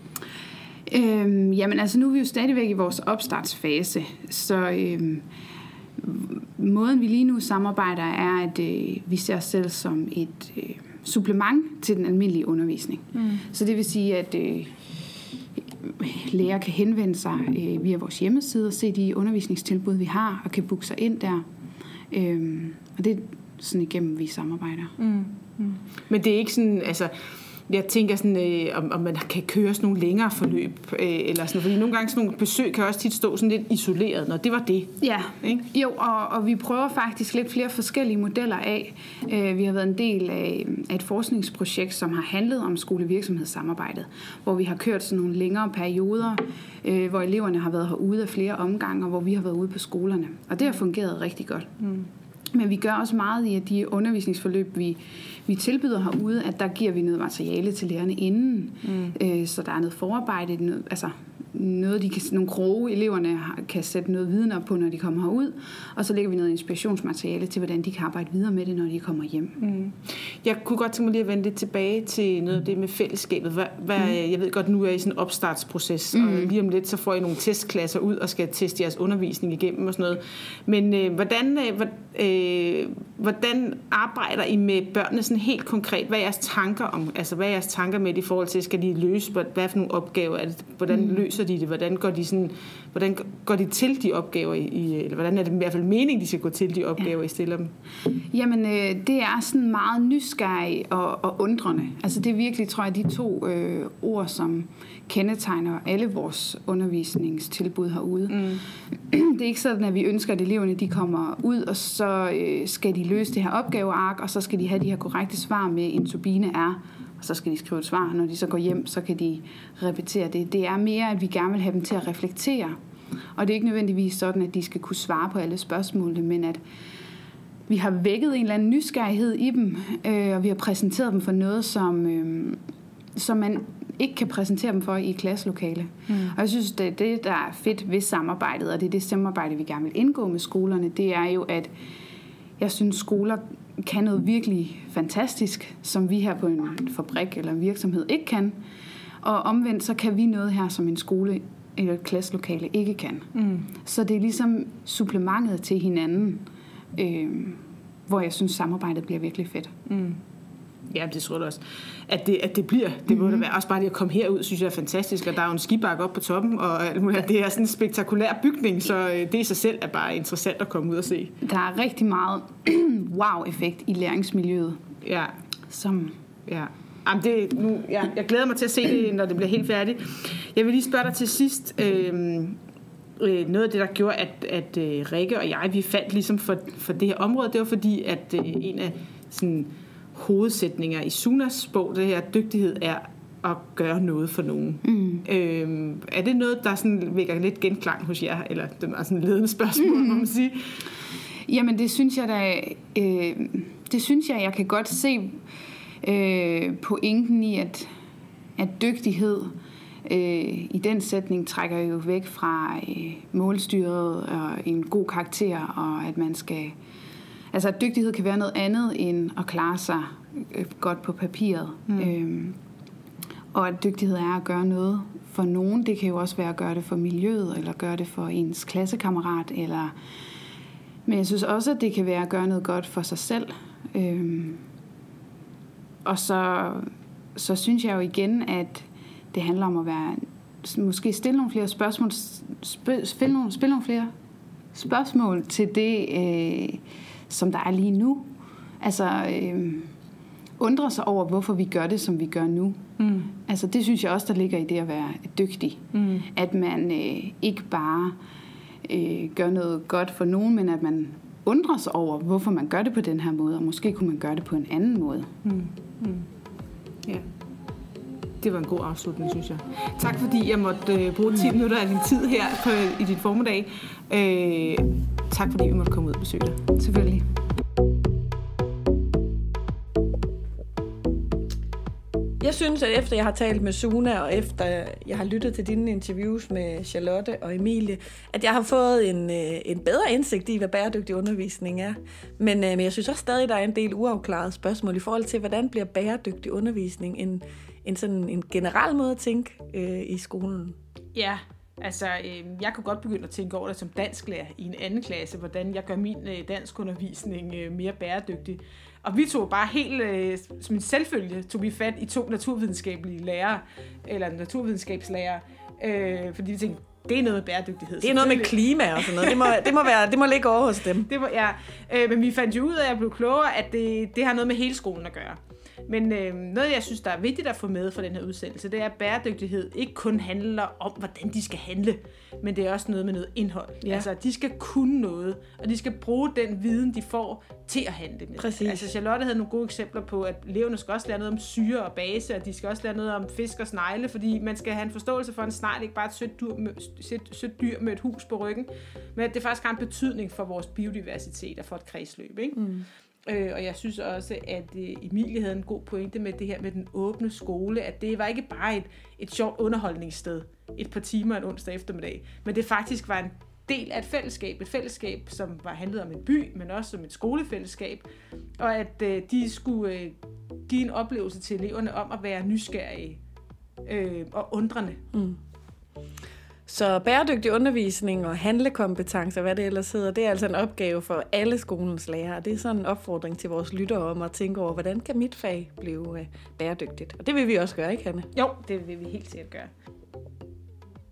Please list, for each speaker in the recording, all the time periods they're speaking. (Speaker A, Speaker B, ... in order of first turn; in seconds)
Speaker A: 0.9-5.2, 6.0-14.9, 15.8-21.4, 22.1-25.0, 35.0-51.8, 52.5-69.6, 76.1-76.5, 90.9-91.2, 98.2-122.8, 123.3-126.6, 127.7-132.6, 133.2-141.7, 142.6-148.6, 149.2-159.8, 163.1-163.4, 171.4-174.8, 175.7-176.2, 194.8-195.2, 199.8-200.3, 201.5-205.4, 206.0-207.9, 208.6-216.8, 217.5-222.6, 223.5-229.9, 231.1-234.6, 236.0-244.1, 244.7-248.3, 248.8-249.9, 250.6-258.2, 258.8-265.3, 276.8-277.2
Speaker B: 13.1-13.4, 25.0-27.1, 27.7-35.6, 51.8-52.1, 58.8-59.1, 69.6-97.7, 108.3-108.6, 136.1-136.3, 153.3-153.7, 159.9-160.2, 160.9-171.3, 175.0-175.3, 176.5-182.6, 183.2-200.8, 253.0-253.3, 255.9-256.3, 265.4-266.3, 268.4-276.6, 301.1-319.8, 321.1-368.1, 368.6-370.1, 370.7-373.2, 373.8-375.0, 388.3-389.7
Speaker C: 282.4-300.8, 318.0-321.1, 338.4-338.9, 352.6-352.9, 375.1-375.4, 376.7-388.3